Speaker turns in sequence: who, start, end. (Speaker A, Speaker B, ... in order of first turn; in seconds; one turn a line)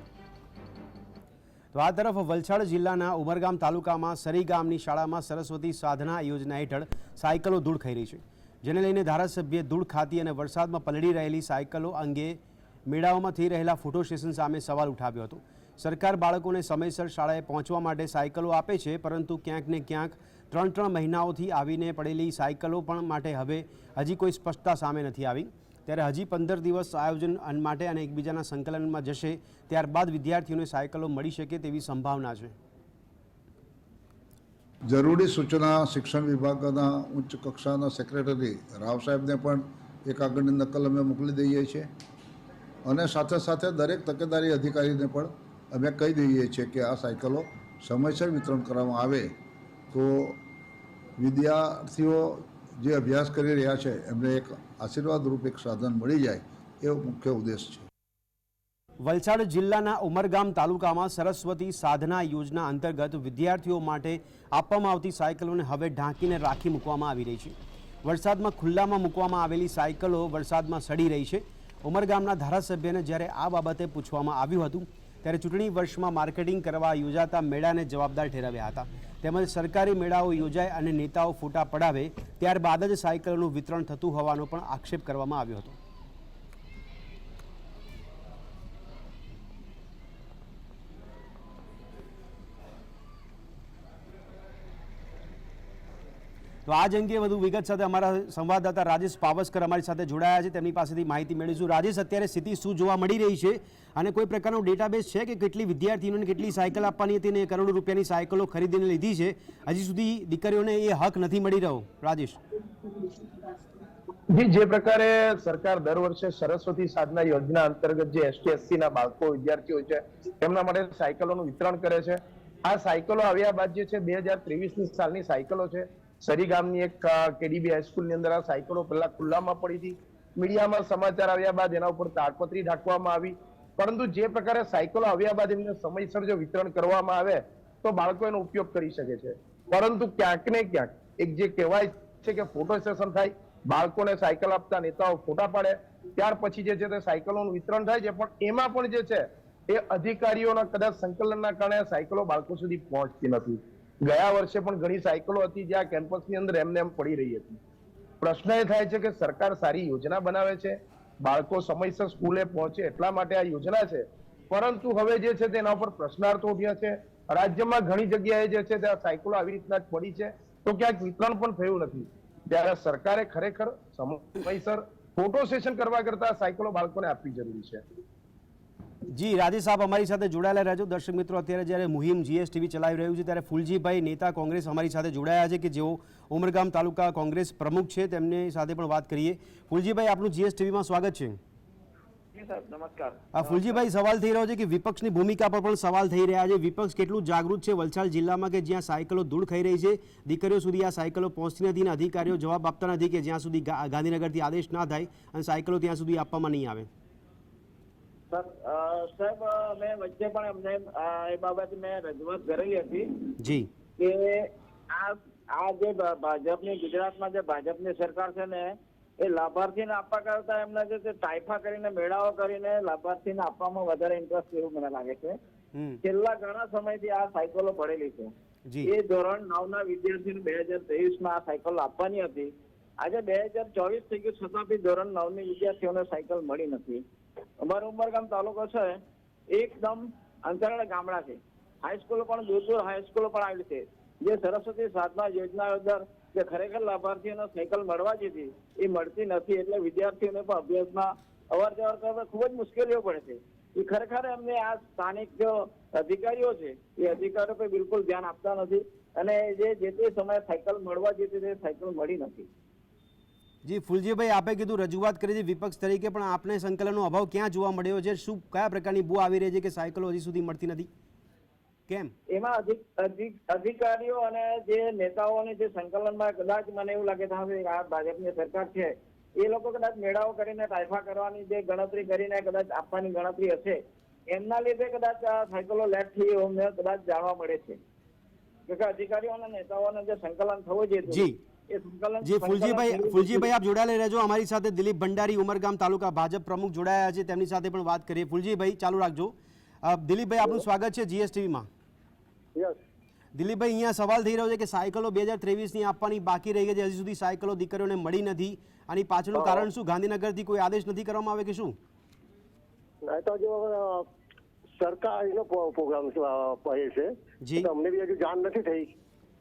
Speaker A: 1.7-32.5
Speaker B: 34.9-41.9
Speaker B: 42.8-49.3
Speaker B: 49.9-50.4
Speaker B: 51.2-57.9
Speaker A: 59.0-85.8
Speaker A: 96.7-112.4
Speaker C: 114.3-157.6
Speaker C: 158.2-177.8
Speaker A: 179.1-191.4
Speaker D: 192.3-193.8
Speaker A: 193.3-206.9
Speaker D: 208.3-213.3
Speaker A: 213.4-213.7
Speaker D: 214.0-225.4
Speaker A: 225.7-226.0
Speaker D: 226.0-228.3
Speaker A: 228.7-228.9
Speaker D: 228.8-237.0
Speaker D: 237.6-262.5
Speaker A: 263.6-270.9
Speaker A: 271.9-272.1
Speaker D: 272.3-287.8
Speaker D: 288.7-293.5
Speaker A: 291.1-291.4
Speaker A: 292.2-301.7
Speaker A: 303.3-311.8
Speaker E: 309.3-309.6
Speaker E: 313.0-314.1
Speaker E: 314.8-318.9
Speaker A: 317.4-317.7